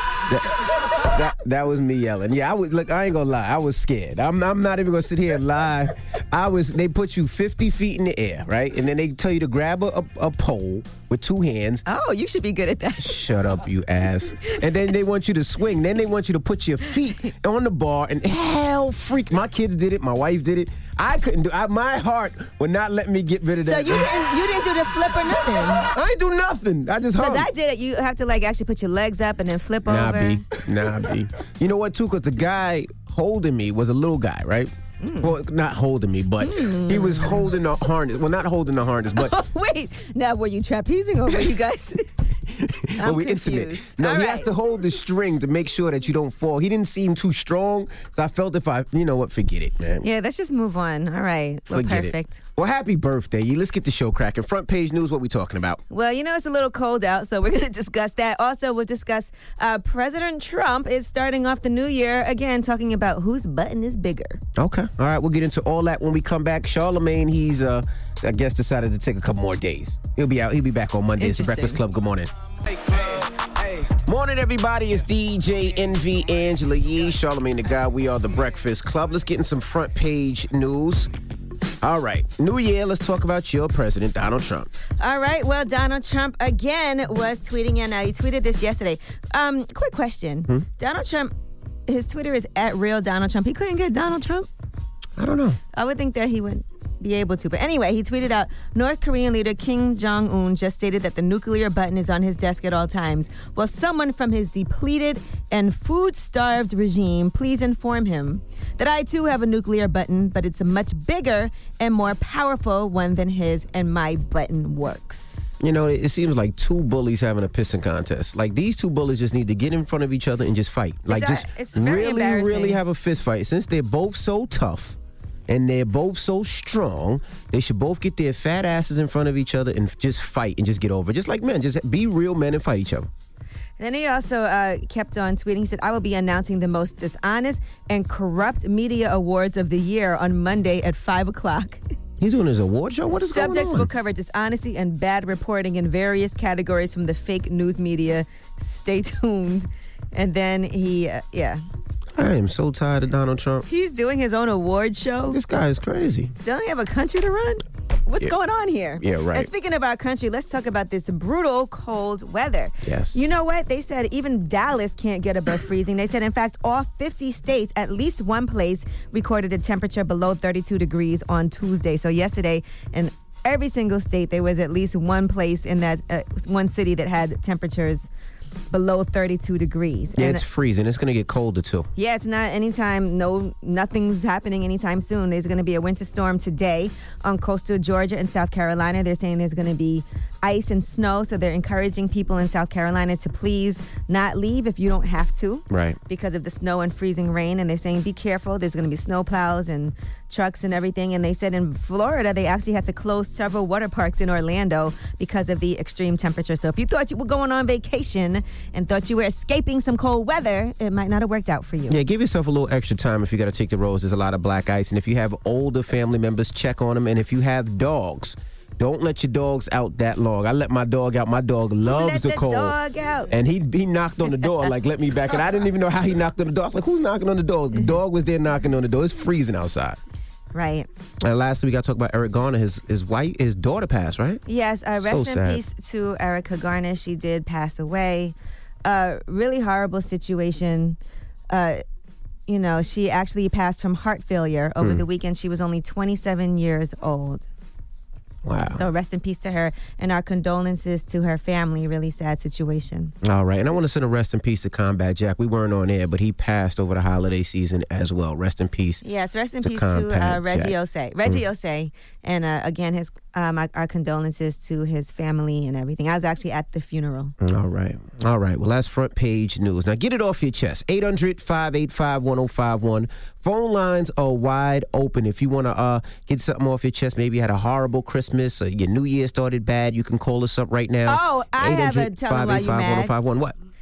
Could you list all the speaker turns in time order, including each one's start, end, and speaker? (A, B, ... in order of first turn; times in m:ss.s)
0:00.3-0:11.8 A
0:11.8-0:13.2 B
0:13.0-0:24.1 A
0:23.6-0:25.8 B
0:25.9-0:27.5 A
0:27.2-0:30.4 B
0:29.8-0:39.3 A
0:35.0-0:35.3 B
0:36.4-0:37.5 B
0:39.1-0:42.0 B
0:42.5-0:50.0 A
0:43.0-0:44.5 B
0:50.0-0:52.4 B
0:51.7-0:55.8 A
0:55.9-1:04.4 B
1:04.6-1:12.3 A
1:11.2-1:11.8 B
1:12.9-1:13.2 A
1:13.8-1:21.1 A
1:21.8-1:24.7 A
1:25.0-1:31.3 B
1:31.9-1:34.5 B
1:35.2-1:35.6 A
1:35.7-1:55.5 B
1:55.6-2:05.0 A
2:01.1-2:02.8 B
2:05.5-2:13.1 A
2:13.8-2:21.8 B
2:22.2-2:23.9 A
2:23.1-2:31.6 B
2:32.2-2:33.6 A
2:33.7-2:35.4 B
2:35.3-2:36.3 A
2:36.4-2:58.1 B
2:39.0-2:39.5 A
2:42.8-2:43.2 A
2:58.7-3:00.4 B
3:00.2-3:01.9 A
3:02.0-3:32.0 B
3:15.7-3:16.0 A
3:31.9-3:42.8 A
3:41.8-3:43.3 B
3:43.3-3:50.0 A
3:50.5-3:50.9 B
3:51.2-3:54.4 A
3:54.4-4:01.0 B
3:55.0-3:55.6 A
4:01.5-4:01.8 B
4:02.5-4:07.5 B
4:04.8-4:05.0 A
4:08.4-4:08.8 A
4:08.7-4:13.1 B
4:13.2-4:19.0 A
4:19.0-4:27.3 B
4:19.6-4:20.7 A
4:27.4-4:43.6 A
4:41.1-4:43.1 B